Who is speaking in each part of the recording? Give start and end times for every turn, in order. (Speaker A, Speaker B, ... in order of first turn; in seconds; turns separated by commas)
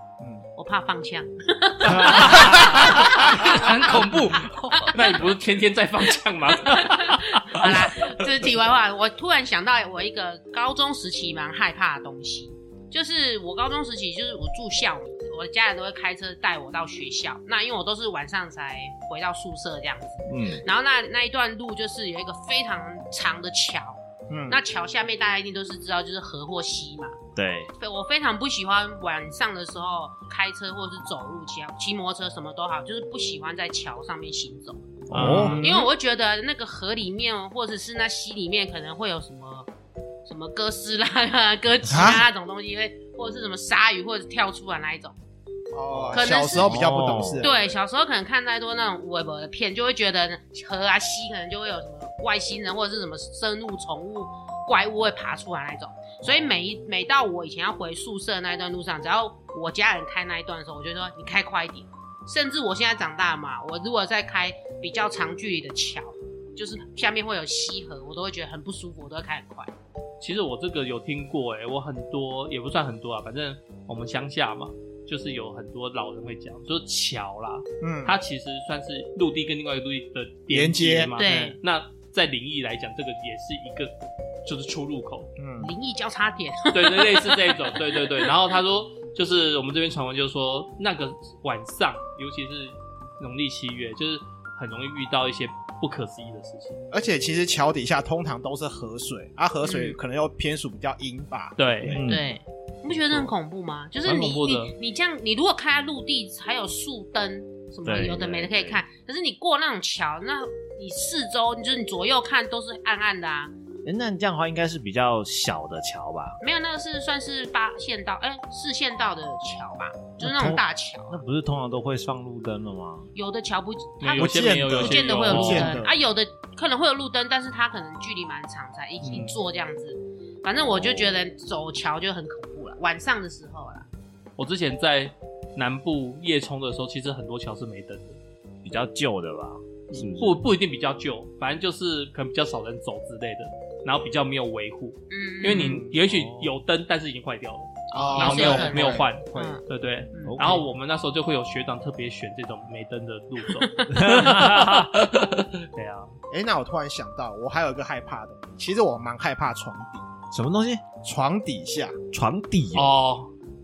Speaker A: 0.6-3.9, Speaker B: 2.1-5.0, Speaker C: 4.9-7.8, Speaker A: 6.7-27.1, Speaker D: 20.3-20.6, Speaker E: 24.3-24.6, Speaker D: 27.4-27.7, Speaker A: 27.8-34.8, Speaker D: 35.1-35.6, Speaker C: 35.1-35.6, Speaker E: 35.1-35.9, Speaker A: 35.3-39.7, Speaker A: 40.2-45.1, Speaker E: 41.9-42.2, Speaker E: 45.7-47.7, Speaker D: 45.9-47.5, Speaker A: 46.1-46.8, Speaker A: 47.4-69.7, Speaker C: 70.2-83.9, Speaker E: 77.8-78.2, Speaker E: 80.5-81.1, Speaker A: 81.2-81.6, Speaker C: 84.4-85.3, Speaker E: 85.4-85.7, Speaker A: 85.6-88.3, Speaker C: 86.7-96.8, Speaker E: 96.9-102.1, Speaker A: 99.6-100.0, Speaker C: 101.6-102.0, Speaker D: 101.9-102.3, Speaker A: 102.0-113.5, Speaker C: 104.0-104.7, Speaker D: 107.8-108.8, Speaker D: 113.8-116.4, Speaker A: 116.4-121.2, Speaker D: 120.2-123.1, Speaker A: 123.1-133.9, Speaker C: 124.0-125.8, Speaker E: 124.2-125.9, Speaker C: 129.0-129.4, Speaker D: 130.7-131.2, Speaker C: 134.4-138.2, Speaker D: 138.6-140.4, Speaker C: 139.9-156.2, Speaker A: 145.1-145.9, Speaker E: 145.5-145.9, Speaker D: 146.1-146.5, Speaker A: 147.9-149.6, Speaker E: 147.9-149.6, Speaker A: 150.1-150.6, Speaker D: 150.2-150.6, Speaker A: 153.6-154.0, Speaker D: 153.9-154.9, Speaker E: 156.3-160.1, Speaker D: 160.3-160.8, Speaker E: 161.0-162.0, Speaker D: 162.1-162.9, Speaker C: 162.7-163.3